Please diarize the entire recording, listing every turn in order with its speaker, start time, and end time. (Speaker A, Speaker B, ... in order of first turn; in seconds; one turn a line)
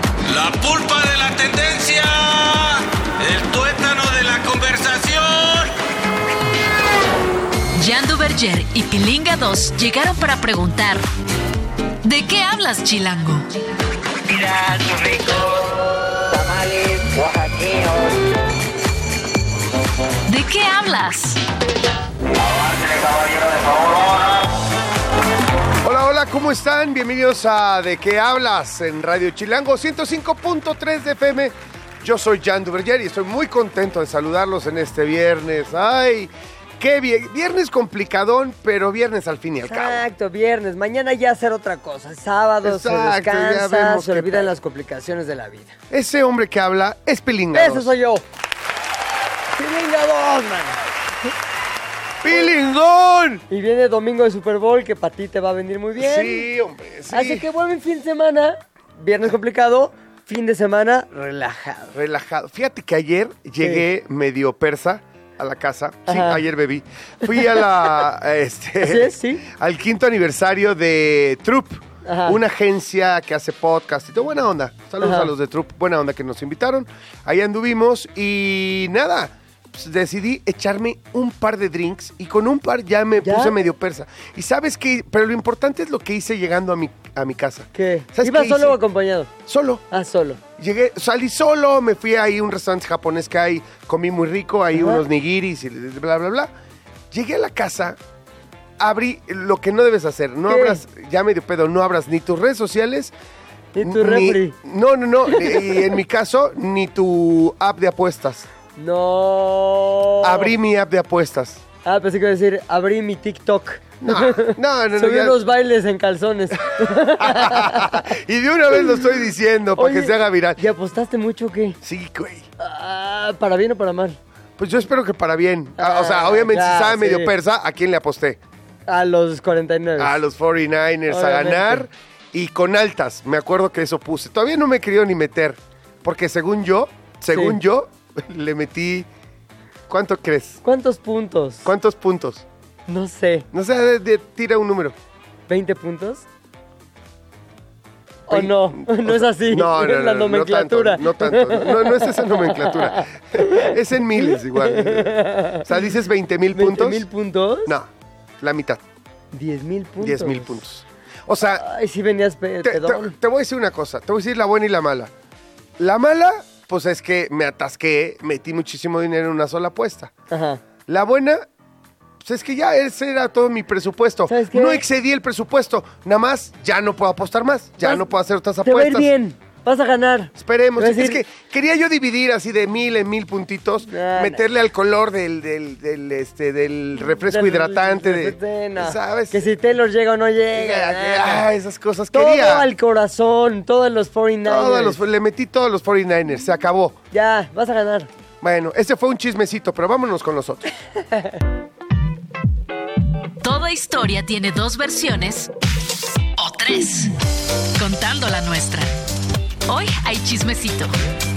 Speaker A: 0.2-5.7
Speaker B: 7.7-11.0
Speaker B: 12.0-13.5
Speaker C: 14.3-15.7
Speaker C: 16.3-18.2
Speaker B: 20.3-21.4
Speaker C: 22.3-24.5
Speaker D: 25.8-40.0
Speaker E: 39.6-45.7
Speaker D: 42.6-44.5
Speaker D: 45.9-47.9
Speaker E: 47.5-48.2
Speaker E: 49.5-50.8
Speaker D: 52.2-53.4
Speaker E: 53.5-56.4
Speaker D: 56.0-57.4
Speaker E: 57.1-61.9
Speaker D: 61.9-88.8
Speaker E: 66.1-66.4
Speaker E: 67.3-67.6
Speaker E: 68.8-69.4
Speaker E: 72.0-72.4
Speaker E: 75.0-75.3
Speaker E: 83.2-83.5
Speaker E: 87.7-89.3
Speaker D: 89.5-89.8
Speaker E: 89.9-90.4
Speaker D: 90.6-96.5
Speaker E: 94.7-95.0
Speaker D: 97.1-98.0
Speaker D: 98.8-103.1
Speaker E: 100.5-100.8
Speaker E: 103.7-104.5
Speaker D: 103.8-108.5
Speaker E: 105.3-105.8
Speaker E: 108.8-110.5
Speaker D: 110.2-111.6
Speaker E: 111.8-118.0
Speaker D: 114.0-115.4
Speaker D: 117.2-120.6
Speaker E: 119.8-121.8
Speaker D: 121.8-122.5
Speaker E: 122.6-124.2
Speaker D: 124.6-128.4
Speaker E: 125.8-127.3
Speaker E: 128.9-130.2
Speaker D: 130.0-139.1
Speaker E: 131.1-131.8
Speaker D: 139.9-140.6
Speaker E: 140.6-141.7
Speaker D: 141.6-142.4
Speaker E: 142.9-143.5
Speaker D: 143.5-144.9
Speaker E: 145.5-146.2
Speaker E: 148.3-153.7
Speaker D: 148.3-157.1
Speaker E: 154.2-155.6
Speaker E: 156.5-157.7
Speaker D: 158.4-158.8
Speaker E: 159.3-160.5
Speaker D: 160.0-161.6
Speaker E: 161.6-163.1
Speaker D: 162.6-165.1
Speaker D: 165.8-170.1
Speaker E: 170.3-170.6
Speaker D: 170.9-171.4
Speaker D: 172.2-179.1
Speaker E: 174.3-174.8
Speaker E: 178.6-181.2
Speaker D: 180.4-189.4
Speaker E: 183.8-184.4
Speaker E: 187.3-191.4
Speaker D: 190.5-192.7
Speaker E: 192.1-195.0
Speaker D: 194.4-196.9
Speaker E: 197.1-198.1
Speaker D: 198.4-200.7
Speaker B: 203.4-205.5
Speaker B: 206.3-207.2
Speaker B: 207.7-208.9
Speaker B: 209.7-210.9